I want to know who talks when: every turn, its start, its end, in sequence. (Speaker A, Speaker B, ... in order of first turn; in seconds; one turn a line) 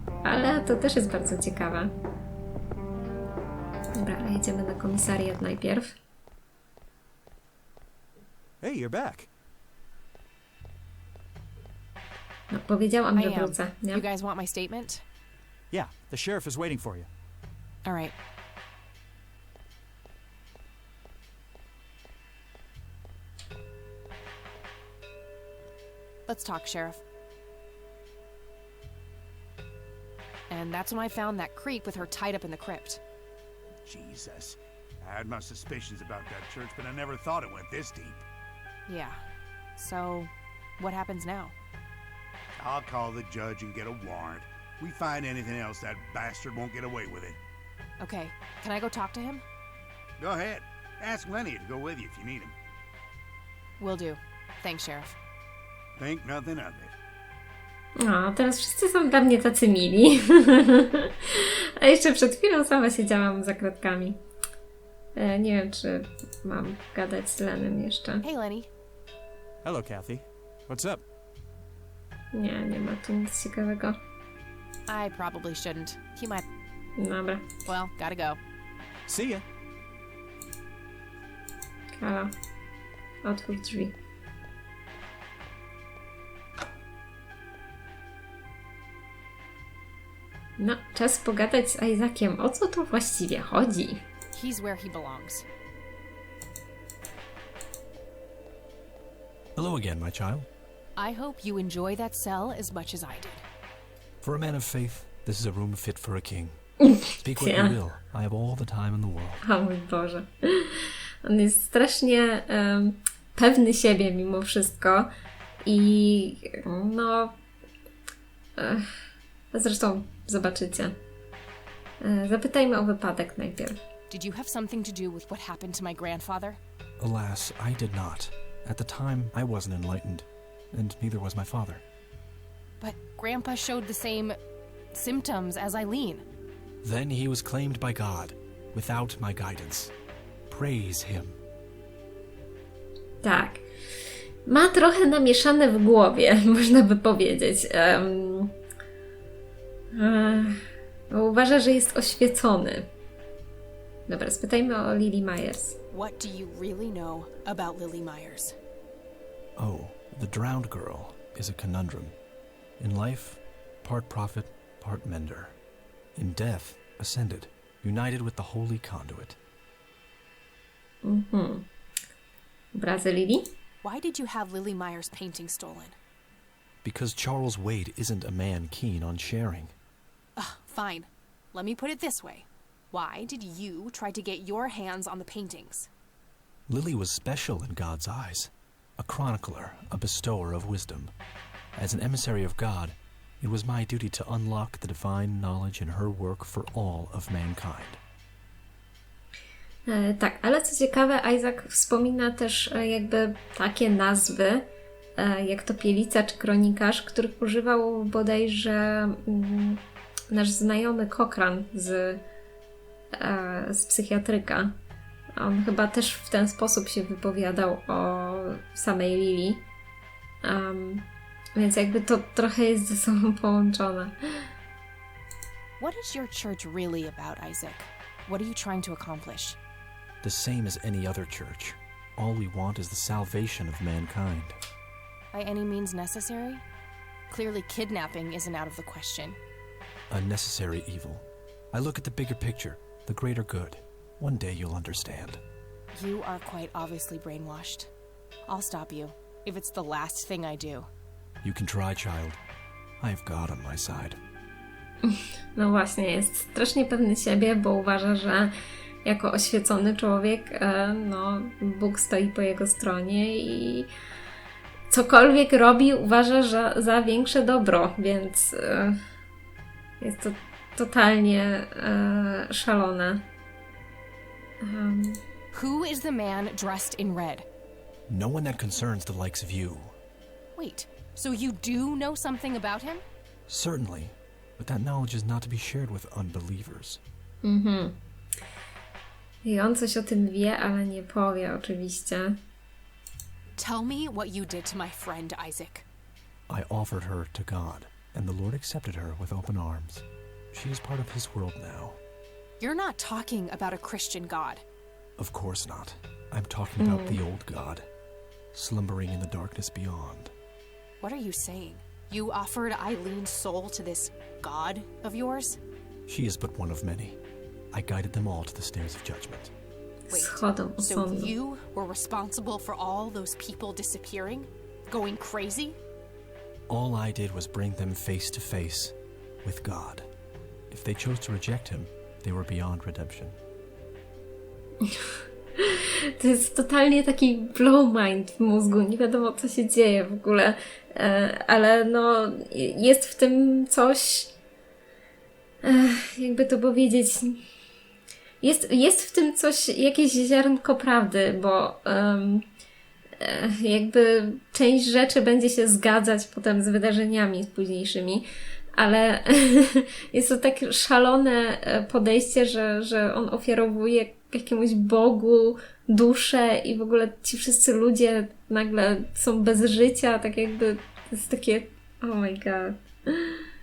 Speaker A: 0.2-1.9
Speaker A: 4.0-6.0
Speaker B: 8.6-9.3
Speaker A: 12.5-14.0
Speaker C: 13.2-15.1
Speaker B: 15.7-17.1
Speaker C: 17.9-18.1
Speaker C: 26.3-27.0
Speaker C: 30.5-33.0
Speaker D: 33.9-38.2
Speaker C: 38.9-39.2
Speaker C: 39.8-41.5
Speaker D: 42.6-47.4
Speaker C: 48.0-49.4
Speaker D: 50.2-52.5
Speaker C: 53.8-55.2
Speaker D: 56.0-57.0
Speaker A: 58.0-64.2
Speaker A: 65.2-68.2
Speaker C: 68.2-68.7
Speaker B: 69.6-71.0
Speaker A: 72.3-74.0
Speaker C: 74.9-76.4
Speaker A: 77.0-77.5
Speaker C: 77.7-78.4
Speaker B: 79.1-79.5
Speaker A: 81.9-82.3
Speaker A: 83.2-84.0
Speaker A: 90.6-94.1
Speaker C: 94.3-95.5
Speaker E: 99.6-100.5
Speaker C: 101.0-103.4
Speaker E: 104.2-106.6
Speaker A: 106.8-107.8
Speaker E: 107.2-109.4
Speaker A: 109.4-115.1
Speaker A: 115.7-117.4
Speaker A: 118.6-118.9
Speaker A: 119.5-121.0
Speaker A: 122.0-123.8
Speaker C: 124.1-126.6
Speaker E: 127.0-131.8
Speaker C: 132.8-134.4
Speaker C: 134.9-136.2
Speaker E: 136.8-139.9
Speaker E: 140.5-141.4
Speaker A: 143.2-143.6
Speaker A: 144.5-148.6
Speaker A: 149.9-150.6
Speaker A: 151.1-152.9
Speaker A: 154.1-155.8
Speaker C: 155.9-158.6
Speaker E: 159.6-162.2
Speaker E: 162.8-165.6
Speaker E: 166.2-169.4
Speaker A: 171.0-171.7
Speaker A: 172.8-173.5
Speaker C: 173.8-176.0
Speaker E: 176.8-179.8
Speaker C: 180.4-185.9
Speaker E: 186.7-191.1
Speaker E: 191.8-198.0
Speaker A: 199.9-212.2
Speaker A: 213.1-214.8
Speaker A: 215.3-219.7
Speaker A: 220.4-224.5
Speaker C: 225.8-229.6
Speaker E: 230.2-234.6
Speaker C: 235.3-236.7
Speaker C: 237.3-239.4
Speaker E: 240.1-245.4
Speaker C: 245.9-247.9
Speaker C: 248.5-250.9
Speaker E: 251.4-252.4
Speaker E: 253.0-254.2
Speaker A: 255.1-258.5
Speaker A: 259.0-263.9
Speaker A: 264.9-269.0
Speaker A: 270.0-273.3
Speaker A: 274.6-275.2
Speaker C: 275.5-277.4
Speaker E: 278.1-280.0
Speaker C: 280.6-283.0
Speaker E: 283.5-287.0
Speaker A: 287.4-288.0
Speaker A: 289.4-292.4
Speaker C: 293.6-295.9
Speaker E: 296.5-302.0
Speaker C: 302.6-304.6
Speaker E: 305.2-307.9
Speaker A: 306.8-307.2
Speaker E: 308.5-310.3
Speaker C: 311.0-315.6
Speaker E: 316.1-317.2
Speaker E: 317.7-319.5
Speaker A: 320.1-321.3
Speaker C: 320.1-325.8
Speaker E: 326.7-330.1
Speaker E: 330.7-333.4
Speaker A: 334.8-344.3
Speaker A: 345.6-347.4
Speaker A: 348.4-352.4
Speaker A: 353.2-373.4